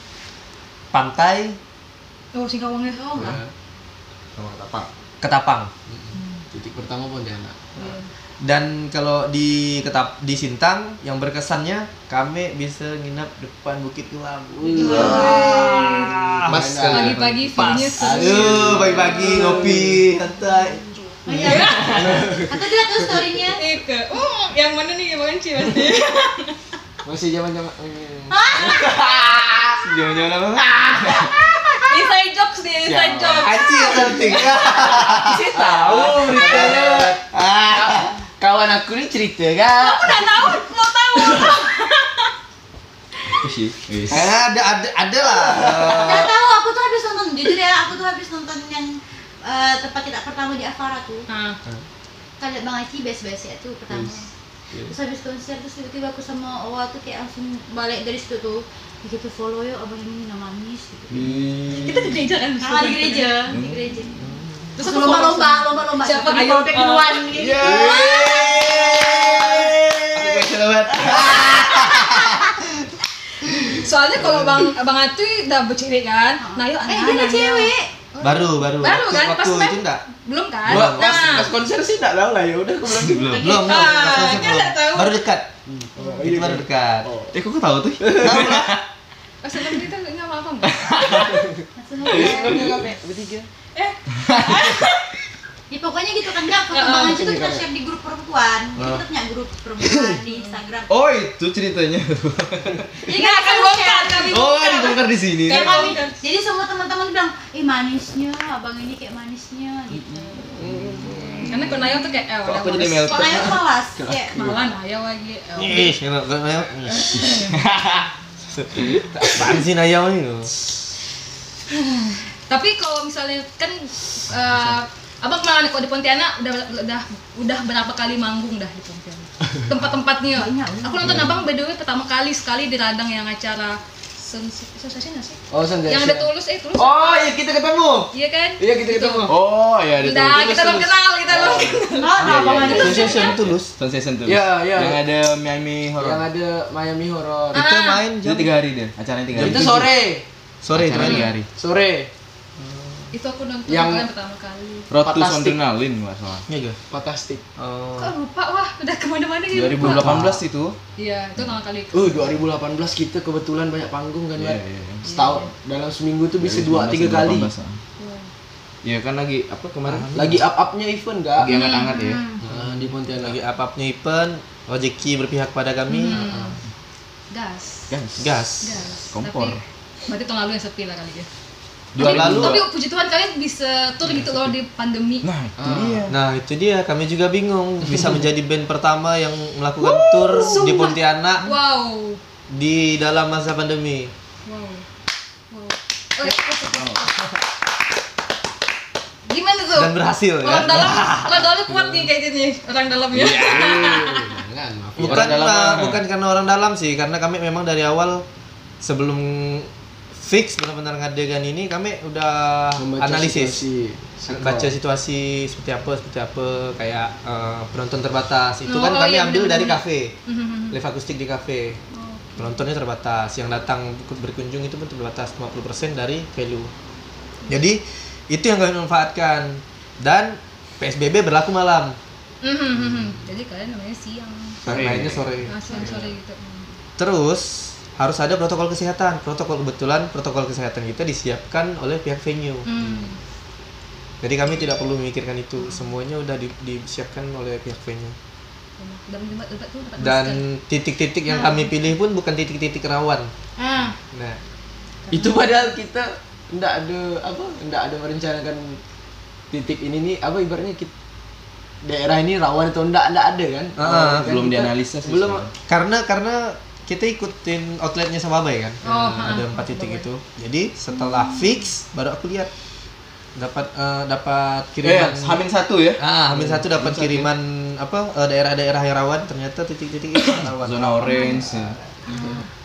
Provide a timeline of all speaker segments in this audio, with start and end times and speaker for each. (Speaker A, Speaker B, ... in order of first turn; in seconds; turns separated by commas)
Speaker A: 0.9-1.6, Speaker B: 2.3-3.3, Speaker C: 2.9-3.4, Speaker D: 3.1-3.5, Speaker E: 4.3-4.9, Speaker A: 5.2-5.7, Speaker D: 5.9-7.6, Speaker B: 6.1-6.5, Speaker B: 7.8-8.1, Speaker A: 8.4-20.9, Speaker D: 14.6-15.5, Speaker C: 14.7-15.8, Speaker B: 14.8-16.1, Speaker D: 16.4-17.3, Speaker B: 16.9-19.6, Speaker D: 17.9-20.0, Speaker C: 21.2-23.6, Speaker D: 21.3-22.8, Speaker B: 21.4-22.1, Speaker E: 21.6-22.2, Speaker B: 23.5-26.6, Speaker D: 27.0-29.8, Speaker C: 28.3-28.9, Speaker E: 29.8-31.3, Speaker D: 30.6-31.4, Speaker B: 31.9-34.3, Speaker D: 32.9-37.2, Speaker E: 32.9-33.4, Speaker A: 33.4-38.1, Speaker E: 35.8-36.9, Speaker D: 37.7-40.4, Speaker B: 39.7-42.3, Speaker E: 43.3-44.3, Speaker A: 44.1-46.3, Speaker D: 45.3-46.0, Speaker C: 45.9-51.2, Speaker B: 51.3-51.6, Speaker C: 52.4-54.3, Speaker C: 54.9-61.2, Speaker D: 61.1-62.1, Speaker E: 61.1-61.5, Speaker B: 61.8-63.4, Speaker C: 62.6-64.1, Speaker E: 63.5-64.2, Speaker B: 64.8-67.8, Speaker C: 64.8-69.6, Speaker E: 67.3-72.4, Speaker A: 68.0-72.5, Speaker C: 71.0-72.4, Speaker B: 73.7-81.5, Speaker C: 76.4-77.9, Speaker A: 78.2-80.0, Speaker A: 80.6-81.5, Speaker D: 80.7-83.6, Speaker E: 83.0-83.5, Speaker A: 83.3-85.5, Speaker C: 83.3-83.8, Speaker B: 83.5-85.2, Speaker D: 85.7-87.3, Speaker A: 86.2-87.1, Speaker E: 87.3-88.8, Speaker D: 88.0-88.5, Speaker A: 88.2-88.7, Speaker B: 89.4-91.4, Speaker E: 90.6-91.4, Speaker D: 91.6-93.5, Speaker C: 91.8-92.8, Speaker B: 93.7-95.1, Speaker E: 94.2-94.8, Speaker C: 95.7-100.9, Speaker B: 96.7-97.2, Speaker D: 97.0-97.6, Speaker B: 100.3-100.5, Speaker E: 100.9-102.9, Speaker B: 103.1-106.2, Speaker C: 103.1-110.5, Speaker E: 104.3-106.0, Speaker D: 110.6-111.5, Speaker A: 110.6-110.9, Speaker B: 111.5-113.5, Speaker E: 112.4-113.6, Speaker C: 113.1-114.5, Speaker D: 114.0-114.6, Speaker B: 114.3-116.0, Speaker A: 115.6-117.2, Speaker B: 116.9-117.6, Speaker E: 117.5-118.0, Speaker A: 118.5-120.5, Speaker B: 121.7-137.4, Speaker C: 130.3-131.1, Speaker D: 135.5-138.1, Speaker B: 138.1-139.3, Speaker D: 138.6-139.4, Speaker E: 139.3-140.9, Speaker B: 140.0-143.3, Speaker D: 141.3-142.8, Speaker C: 141.9-143.4, Speaker E: 142.2-146.2, Speaker A: 142.7-143.7, Speaker D: 144.2-145.1, Speaker D: 146.0-147.6, Speaker A: 147.5-148.5, Speaker B: 147.5-148.0, Speaker E: 148.2-149.9, Speaker A: 149.3-149.9, Speaker D: 149.3-150.2, Speaker A: 150.6-151.3, Speaker E: 150.7-151.5, Speaker B: 151.0-151.3, Speaker D: 151.5-152.1, Speaker A: 152.6-153.1, Speaker B: 153.1-154.9, Speaker D: 153.7-154.1, Speaker E: 154.9-156.4, Speaker D: 155.0-155.6, Speaker A: 156.5-156.8, Speaker D: 156.9-157.4, Speaker A: 157.6-158.1, Speaker B: 158.0-160.4, Speaker E: 159.5-160.8, Speaker B: 161.0-162.1, Speaker D: 161.9-167.5, Speaker E: 164.3-165.1, Speaker B: 165.0-165.5, Speaker E: 166.4-167.8, Speaker B: 168.0-168.3, Speaker E: 168.8-170.4, Speaker D: 169.9-171.5, Speaker E: 171.4-172.3, Speaker C: 171.5-172.4, Speaker B: 171.5-172.1, Speaker D: 172.4-173.4, Speaker A: 173.2-176.4, Speaker B: 175.9-176.6, Speaker B: 177.3-177.9, Speaker E: 177.9-178.3, Speaker A: 178.2-178.7, Speaker B: 178.6-181.3, Speaker E: 179.1-179.6, Speaker E: 181.9-182.6, Speaker A: 181.9-182.6, Speaker B: 182.0-185.3, Speaker E: 185.2-186.2, Speaker D: 185.6-186.1, Speaker A: 186.1-191.5, Speaker B: 190.3-192.2, Speaker A: 192.5-194.1, Speaker B: 194.4-194.8, Speaker B: 195.5-197.1, Speaker E: 196.6-197.2, Speaker B: 199.3-204.4, Speaker A: 199.7-201.5, Speaker E: 203.1-203.9, Speaker D: 203.3-205.5, Speaker A: 205.0-208.2, Speaker E: 205.0-206.0, Speaker A: 208.8-213.6, Speaker D: 212.8-214.7, Speaker A: 214.3-220.1, Speaker B: 218.7-220.8, Speaker A: 220.7-221.8, Speaker B: 221.9-222.5, Speaker A: 222.4-226.7, Speaker A: 227.5-232.0, Speaker B: 232.4-236.7, Speaker E: 234.6-235.3, Speaker A: 234.7-236.0, Speaker A: 237.0-242.7, Speaker B: 242.7-243.2, Speaker A: 244.2-248.2, Speaker B: 248.8-250.4, Speaker A: 250.0-253.3, Speaker C: 253.6-253.9, Speaker A: 254.1-254.4, Speaker B: 255.1-255.7, Speaker D: 255.1-258.8, Speaker D: 259.5-260.9, Speaker D: 261.8-264.8, Speaker A: 263.8-264.4, Speaker E: 264.2-265.5, Speaker A: 265.0-272.5, Speaker B: 268.8-270.0, Speaker A: 273.3-275.4, Speaker E: 274.8-277.3, Speaker A: 276.0-281.7, Speaker E: 280.2-281.8, Speaker B: 282.1-282.4